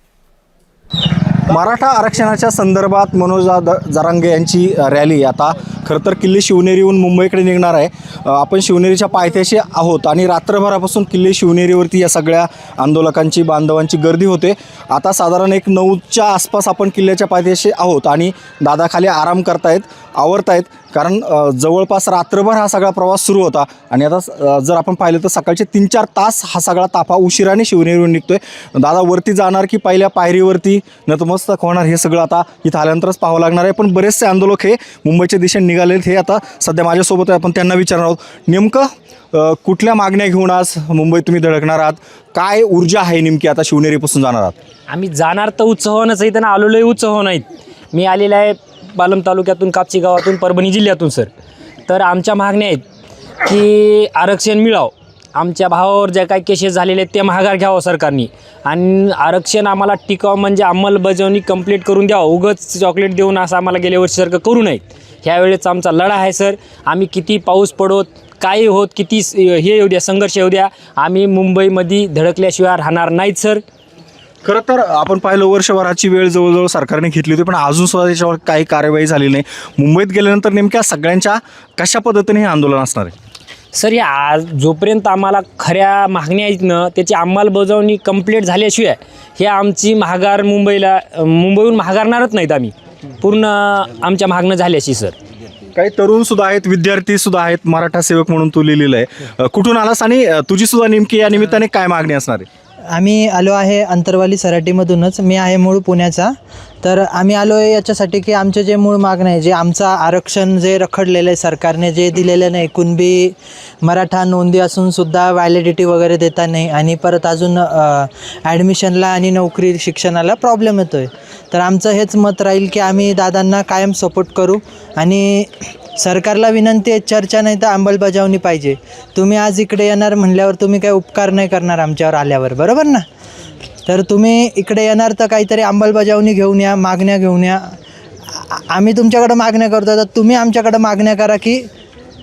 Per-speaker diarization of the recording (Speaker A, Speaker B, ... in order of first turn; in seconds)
Speaker A: 1.4-44.5, 74.4-83.1, 95.8-102.5
Speaker B: 44.9-51.3, 51.9-52.8, 53.4-73.6, 83.7-95.2
Speaker C: 102.9-133.1, 133.8-137.8, 138.3-141.7